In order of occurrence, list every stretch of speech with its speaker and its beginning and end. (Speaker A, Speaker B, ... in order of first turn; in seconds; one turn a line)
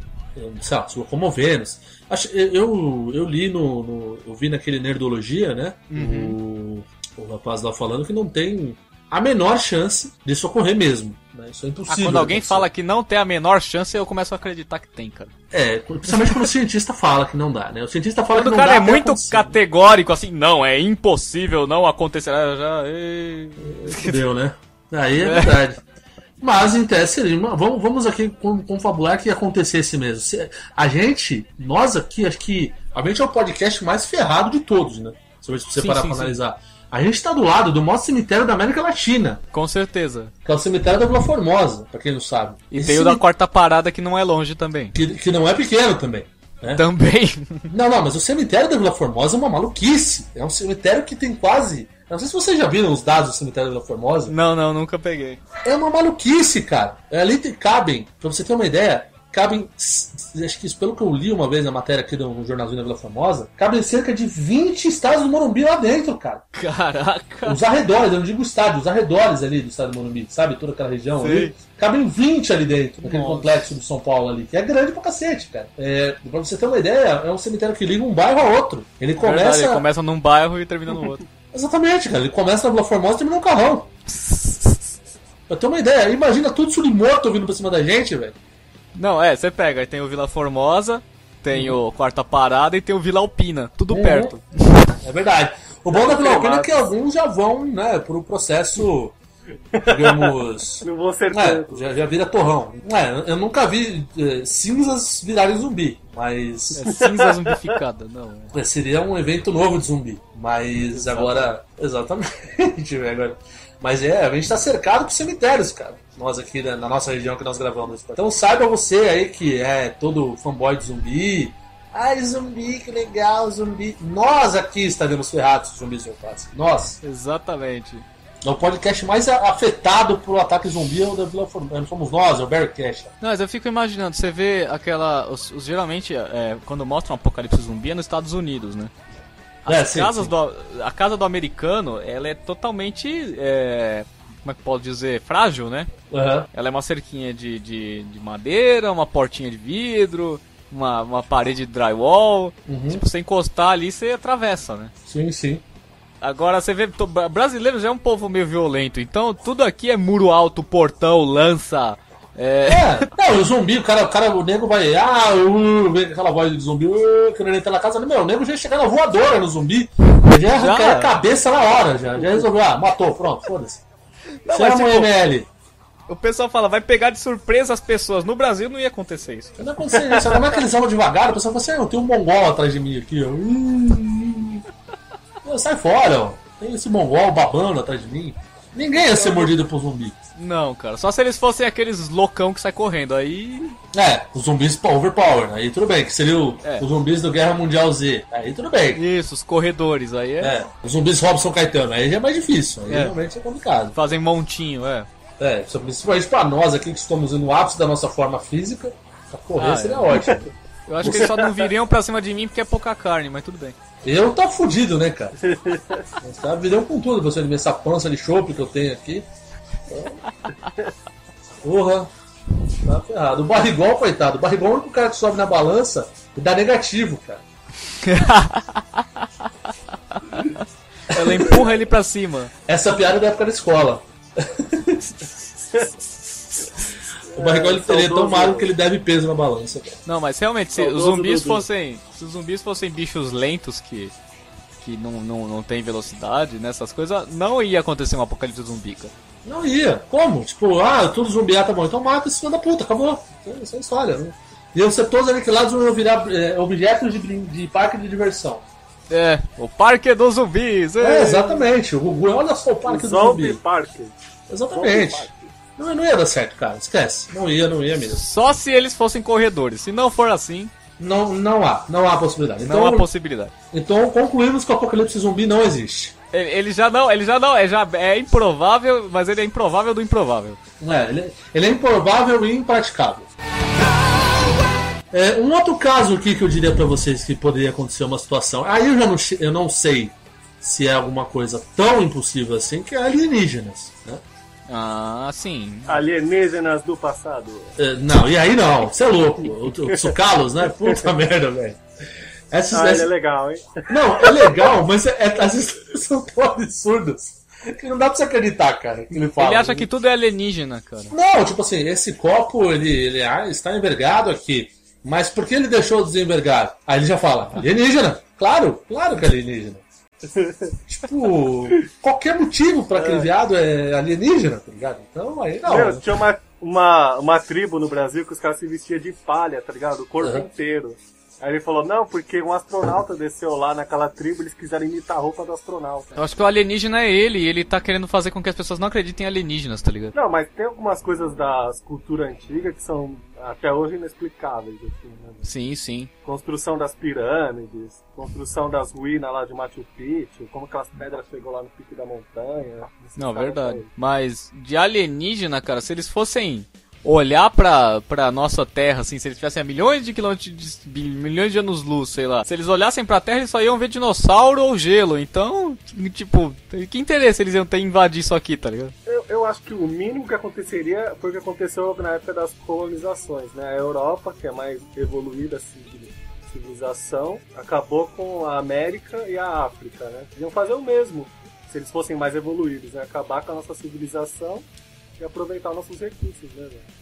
Speaker A: 0.4-12.7
Speaker B: 5.9-6.4
Speaker B: 11.9-15.3
Speaker A: 15.5-19.6
Speaker B: 16.1-16.4
Speaker B: 18.3-24.2
Speaker A: 23.6-25.8
Speaker B: 25.2-25.6
Speaker A: 26.4-39.4
Speaker B: 35.8-36.4
Speaker B: 39.5-40.3
Speaker A: 40.5-43.2
Speaker B: 42.7-45.0
Speaker A: 44.9-46.9
Speaker B: 46.7-47.7
Speaker A: 47.7-54.4
Speaker B: 54.3-55.4
Speaker A: 55.6-66.4
Speaker B: 66.5-67.6
Speaker A: 67.5-79.9
Speaker B: 71.2-71.6
Speaker B: 73.0-73.6
Speaker B: 79.2-81.2
Speaker A: 81.5-83.9
Speaker B: 84.1-84.9
Speaker A: 85.5-88.4
Speaker B: 88.9-94.9
Speaker A: 91.5-91.8
Speaker A: 93.9-94.4
Speaker A: 95.0-99.2
Speaker C: 95.9-96.9
Speaker C: 99.7-101.8
Speaker A: 99.8-106.9
Speaker B: 106.7-108.5
Speaker C: 107.0-107.5
Speaker A: 108.5-127.0
Speaker B: 110.9-111.5
Speaker B: 127.0-128.1
Speaker A: 128.4-133.1
Speaker B: 133.2-138.9
Speaker B: 139.7-145.9
Speaker A: 139.7-140.3
Speaker A: 146.1-146.5
Speaker B: 146.5-154.9
Speaker A: 152.7-153.0
Speaker A: 155.1-155.6
Speaker B: 156.2-163.1
Speaker A: 162.7-173.8
Speaker B: 170.3-171.1
Speaker B: 174.4-175.1
Speaker A: 174.5-175.5
Speaker B: 176.1-180.6
Speaker A: 179.6-184.7
Speaker A: 185.4-190.2
Speaker B: 189.1-189.6
Speaker B: 190.4-193.8
Speaker A: 193.9-199.0
Speaker B: 198.9-200.6
Speaker A: 200.4-204.1
Speaker B: 202.9-203.2
Speaker B: 203.9-205.1
Speaker A: 205.4-211.4
Speaker B: 209.6-210.3
Speaker B: 210.9-213.8
Speaker C: 211.0-211.7
Speaker A: 214.0-215.4
Speaker C: 215.4-216.1
Speaker A: 216.2-219.3
Speaker A: 219.9-220.2
Speaker A: 221.6-222.1
Speaker A: 222.8-227.4
Speaker B: 228.0-229.2
Speaker B: 230.1-232.5
Speaker A: 231.1-231.6
Speaker A: 232.7-235.2
Speaker C: 237.3-238.7
Speaker A: 237.3-240.0
Speaker B: 240.1-244.2
Speaker C: 240.8-241.6
Speaker B: 244.8-249.1
Speaker A: 249.4-258.6
Speaker B: 259.1-261.6
Speaker A: 261.0-263.6
Speaker C: 262.9-264.1
Speaker A: 264.5-268.2
Speaker C: 264.7-265.6
Speaker B: 268.1-270.7
Speaker A: 271.0-273.1
Speaker B: 272.6-273.5
Speaker A: 273.7-276.1
Speaker B: 276.3-280.6
Speaker A: 280.8-283.3
Speaker A: 285.1-294.2
Speaker B: 294.7-296.0
Speaker C: 295.9-297.7
Speaker A: 297.8-301.8
Speaker A: 302.5-303.1
Speaker C: 302.7-304.7
Speaker A: 303.9-309.9
Speaker B: 309.4-311.1
Speaker A: 311.1-319.8
Speaker C: 320.3-320.8
Speaker A: 320.9-326.1
Speaker C: 322.9-323.3
Speaker C: 325.6-336.1
Speaker A: 330.2-330.5
Speaker B: 336.1-340.1
Speaker C: 340.1-345.4
Speaker B: 345.4-346.1
Speaker C: 346.2-353.9
Speaker B: 353.1-368.9
Speaker C: 369.1-384.6
Speaker C: 385.2-386.9